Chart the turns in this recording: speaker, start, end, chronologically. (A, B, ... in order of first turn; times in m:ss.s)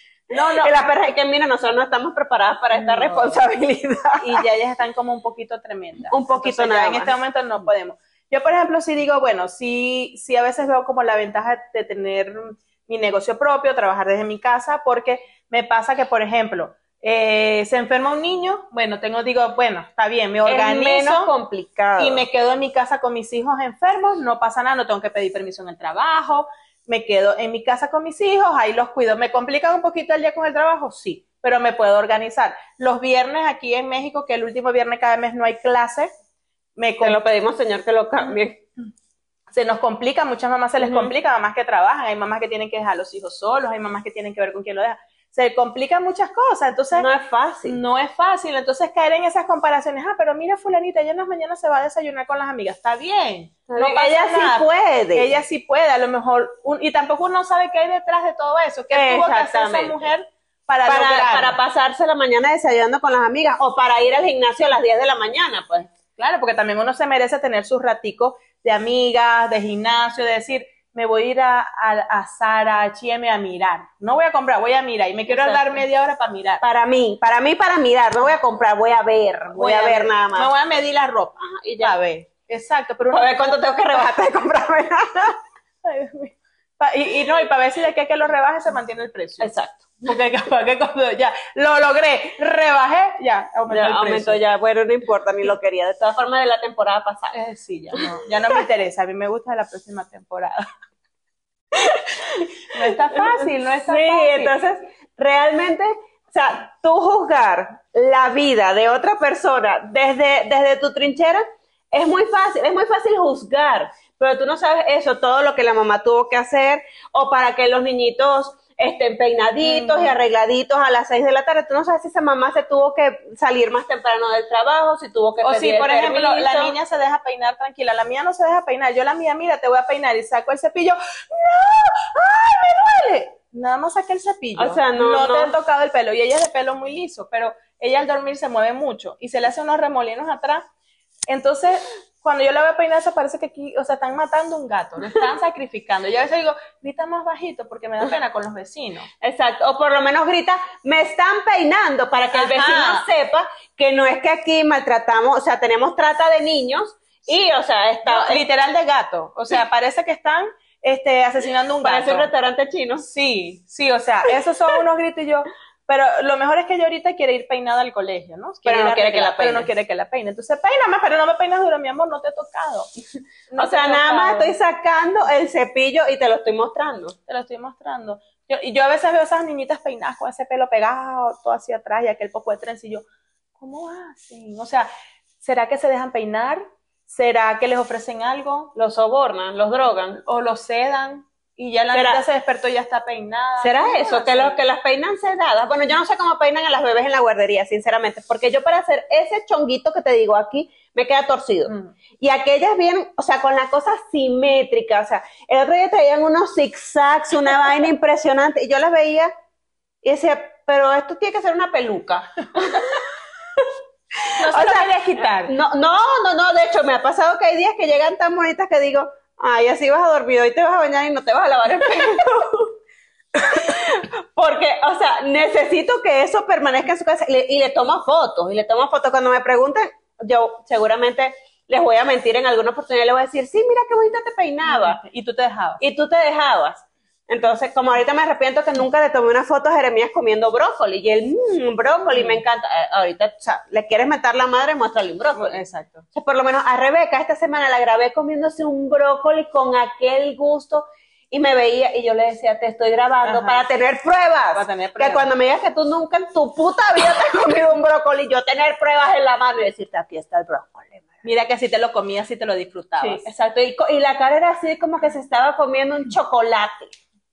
0:00.3-0:00.7 A
0:00.3-0:04.4 B
0:02.7-0:03.4 A
0:04.2-0:21.3 A
0:06.1-0:07.1 B
0:20.4-0:22.2 B
0:22.0-0:36.1 A
0:36.8-0:37.2 A
0:37.0-0:38.6 B
0:39.5-0:47.0 A
0:40.8-0:41.1 B
0:46.9-0:47.8 B
0:47.6-1:01.6 A
0:53.7-0:55.3 B
0:58.9-1:00.0 B
1:00.8-1:05.9 B
1:06.2-1:16.6 A
1:15.3-1:15.7 B
1:16.6-1:20.5 B
1:19.5-1:24.1 A
1:21.4-1:21.9 B
1:23.1-1:25.4 B
1:25.8-1:29.5 A
1:29.4-1:30.0 B
1:30.0-1:34.4 A
1:33.7-1:37.4 B
1:37.3-1:40.6 A
1:41.8-1:42.5 B
1:42.7-1:44.5 A
1:43.8-2:06.7 B
1:59.6-2:00.2 A
2:05.4-2:20.6 A
2:14.6-2:15.5 B
2:21.3-2:29.1 A
2:29.2-2:38.4 B
2:32.3-2:33.0 A
2:38.0-2:42.3 A
2:41.8-2:43.0 B
2:43.0-2:52.9 A
2:48.6-2:49.7 B
2:53.5-2:54.5 A
2:53.6-2:57.2 B
2:57.3-3:03.0 A
3:03.6-3:04.9 A
3:05.4-3:08.7 A
3:08.7-3:10.2 B
3:10.2-3:14.6 A
3:11.9-3:12.2 B
3:13.6-3:29.3 B
3:21.6-3:21.9 A
3:30.0-3:32.8 B
3:34.4-3:35.5 A
3:34.5-3:34.9 B
3:35.4-3:42.7 B
3:43.4-3:55.0 B
3:54.6-3:55.8 A
3:55.8-4:05.6 B
4:02.1-4:02.4 A
4:05.3-4:06.0 A
4:06.1-4:21.1 B
4:13.2-4:13.6 A
4:14.5-4:15.3 A
4:21.2-4:23.3 A
4:23.0-4:26.9 B